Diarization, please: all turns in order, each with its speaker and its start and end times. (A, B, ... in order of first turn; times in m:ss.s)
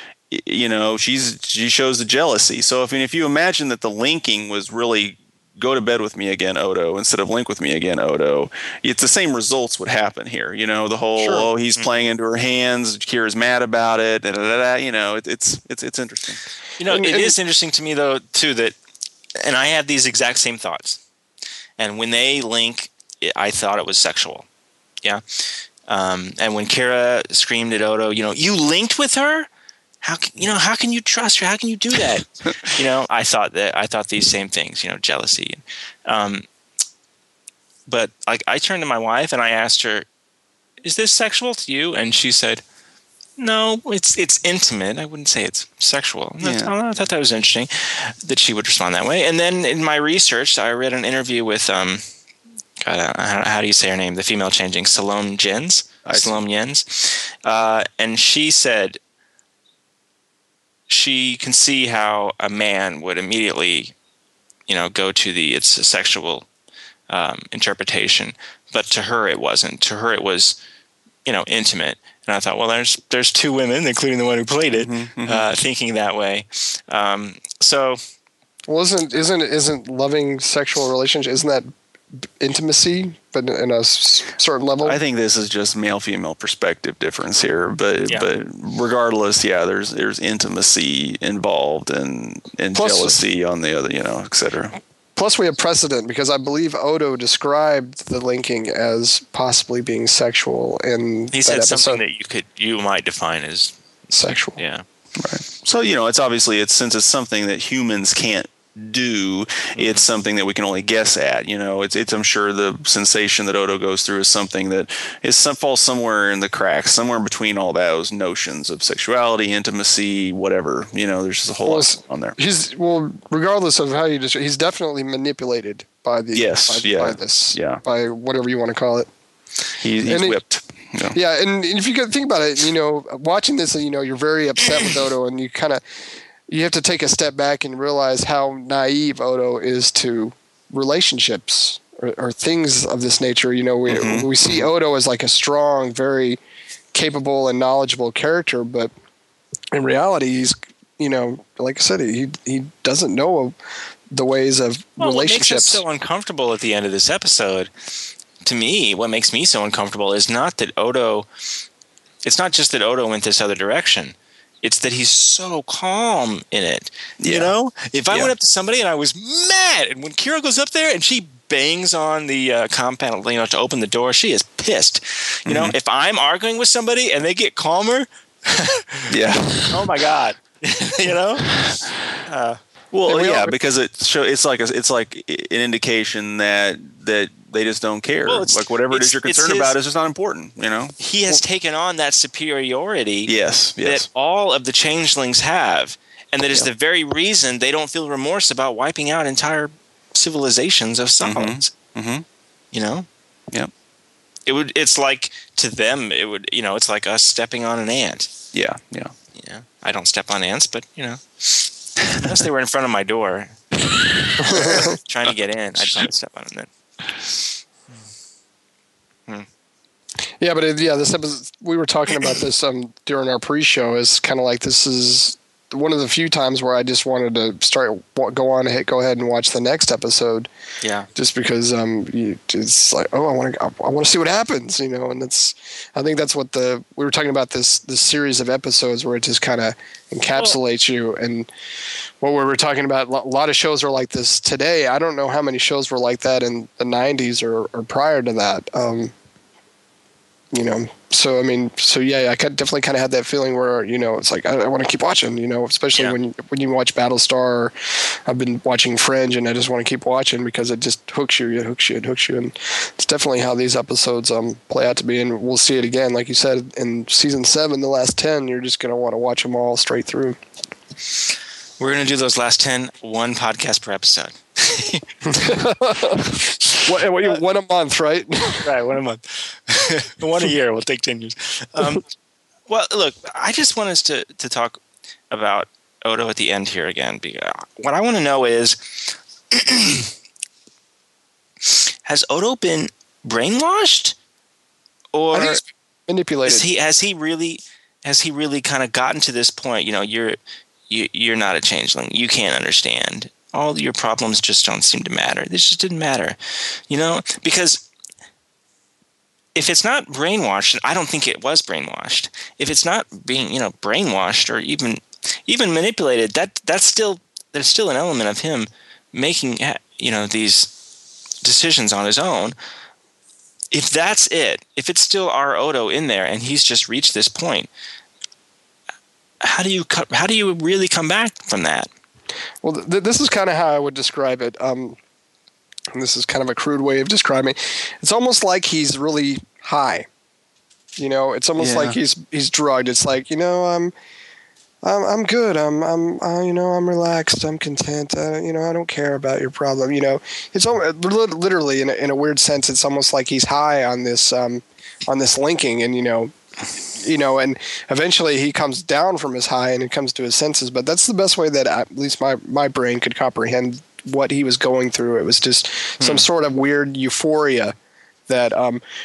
0:00.3-0:16.4 A
0:11.2-0:11.5 B
0:16.8-0:18.8 C
0:16.9-0:17.4 B
0:19.4-0:21.0 C
0:21.8-0:24.5 C
0:25.0-0:29.5 C
0:30.0-0:36.5 C
0:37.9-0:40.1 C
0:40.8-0:42.6 C
0:43.4-0:52.0 C
0:46.4-0:46.7 A
0:52.8-0:59.0 C
0:56.0-0:56.4 A
1:00.9-1:03.9 C
1:04.7-1:06.5 C
1:07.1-1:10.6 C
1:11.2-1:18.0 C
1:14.7-1:15.5 A
1:18.7-1:21.7 B
1:22.2-1:25.0 B
1:24.8-1:34.8 A
1:32.8-1:33.2 B
1:35.2-1:42.0 B
1:41.3-1:43.8 C
1:44.1-1:44.6 B
1:44.6-1:44.8 C
1:45.2-2:02.4 A
1:49.8-1:50.0 C
2:01.6-2:09.1 B
2:06.3-2:07.8 A
2:09.8-2:11.2 A
2:10.1-2:10.4 B
2:11.1-2:15.8 B
2:16.5-2:26.4 B
2:23.9-2:24.7 A
2:26.9-2:28.9 B
2:29.7-2:33.6 B
2:34.1-2:35.8 B
2:35.0-2:37.7 C
2:38.4-2:41.3 C
2:42.2-2:59.1 C
2:47.2-2:47.5 A
2:55.5-2:55.8 A
2:59.1-2:59.9 A
2:59.7-3:01.6 C
3:01.5-3:02.0 A
3:02.2-3:02.6 C
3:02.9-3:11.4 A
3:03.1-3:03.5 B
3:08.3-3:09.8 C
3:11.0-3:13.3 C
3:13.3-3:14.1 A
3:13.8-3:21.7 C
3:21.2-3:22.2 A
3:22.7-3:23.1 C
3:24.5-3:28.3 C
3:28.5-3:29.1 A
3:29.4-3:33.6 C
3:33.9-3:34.6 A
3:34.4-3:35.0 B
3:34.6-3:36.7 C
3:35.8-3:36.1 A
3:40.4-3:50.5 B
3:50.8-3:51.1 C
3:51.2-4:01.5 B
4:02.2-4:09.1 B
4:10.5-4:17.7 B
4:18.3-4:30.4 B
4:31.8-4:35.5 C
4:35.3-4:38.7 B
4:38.6-4:42.0 C
4:42.7-4:50.1 C
4:51.7-4:54.1 C
4:55.1-4:55.6 C
4:55.3-4:56.7 B
4:56.5-5:00.4 C
5:00.9-5:07.8 C
5:09.6-5:20.7 C
5:21.4-5:22.6 C
5:23.7-5:27.7 C
5:29.4-5:31.9 C
5:32.6-5:35.0 B
5:35.9-5:40.1 B
5:41.0-5:43.9 B
5:41.6-5:42.0 A
5:44.8-5:56.3 B
5:57.0-6:07.8 B
6:06.0-6:06.3 C
6:08.3-6:08.8 B